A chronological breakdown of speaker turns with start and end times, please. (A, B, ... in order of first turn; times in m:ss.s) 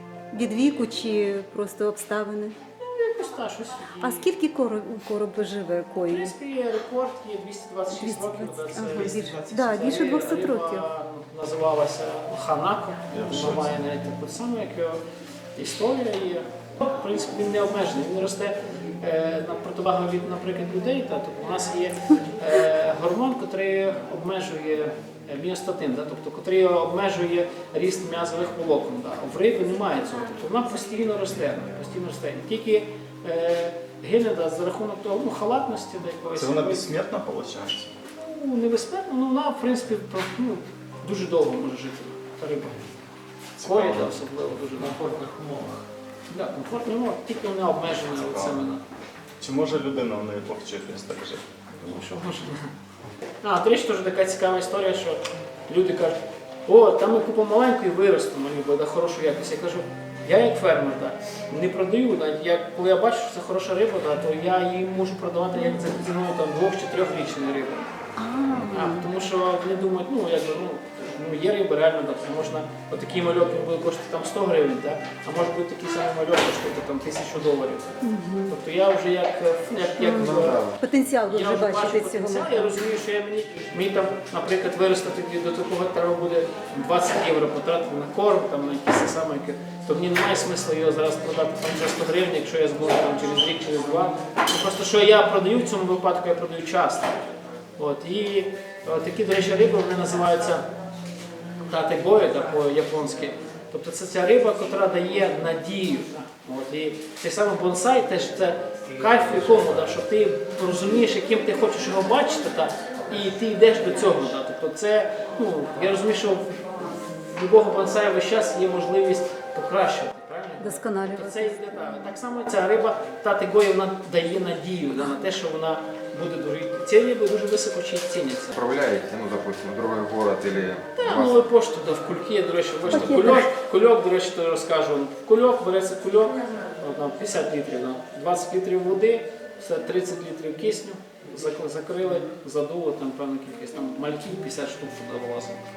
0:00.3-0:02.5 A
0:02.9-0:04.3 B
0:04.0-0:06.3 A
0:06.1-0:15.0 B
0:07.9-0:10.9 A
0:13.1-0:13.7 C
0:15.6-0:36.9 B
0:36.4-0:37.9 C
0:38.2-0:42.8 B
0:43.6-0:44.1 C
0:43.6-0:45.3 B
0:46.3-0:48.8 B
0:48.1-0:48.6 C
0:49.4-0:51.4 C
0:51.7-0:52.7 B
0:53.4-1:07.9 B
1:08.2-1:09.1 A
1:08.7-1:18.0 B
1:18.0-1:18.5 A
1:18.5-1:20.6 B
1:20.0-1:22.8 A
1:20.1-1:20.8 D
1:21.3-1:37.2 B
1:37.8-1:40.6 B
1:41.6-2:08.5 B
2:00.6-2:02.0 A
2:08.5-2:11.4 D
2:11.0-2:25.6 B
2:12.8-2:13.5 A